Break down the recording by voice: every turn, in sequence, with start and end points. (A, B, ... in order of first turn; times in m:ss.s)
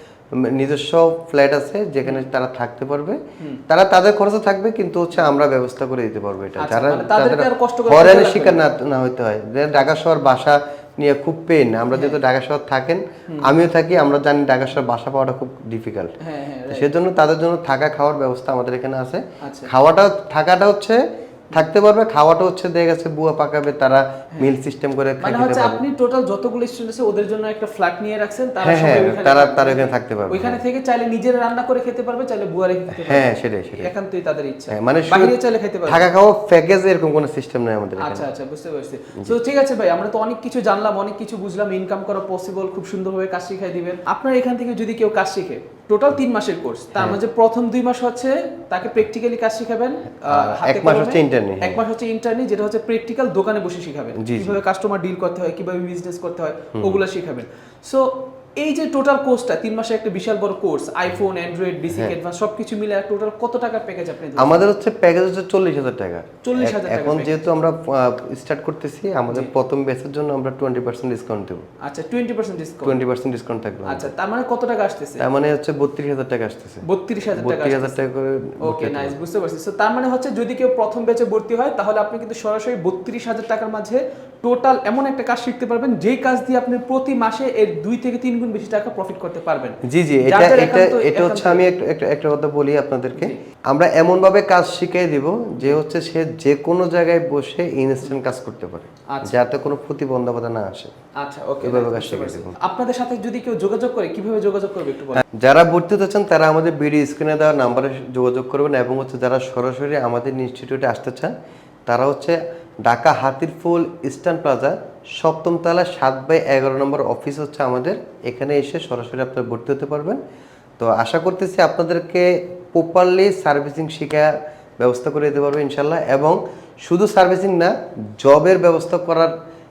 0:00.4-0:16.1 A
0:02.0-0:02.3 B
0:06.6-0:08.6 B
0:11.9-0:12.2 B
0:13.3-0:13.5 B
0:16.2-0:17.0 B
0:16.7-0:25.8 A
0:19.4-0:19.7 B
0:25.2-0:36.1 B
0:28.6-0:30.6 A
0:32.9-0:33.9 A
0:34.7-0:35.3 A
0:35.9-0:38.3 A
0:38.0-1:04.6 B
0:50.3-0:51.8 A
0:54.2-0:54.6 A
0:56.7-0:57.0 A
1:04.4-1:11.6 A
1:06.4-1:07.4 B
1:11.8-1:13.0 B
1:12.8-1:14.1 A
1:13.8-1:15.2 B
1:15.2-1:19.2 A
1:16.8-1:18.0 B
1:18.6-1:31.6 B
1:29.8-1:40.9 A
1:39.1-1:39.4 B
1:41.2-1:45.2 B
1:41.6-1:42.5 A
1:45.3-1:51.4 A
1:51.9-2:00.2 A
2:00.8-2:09.3 A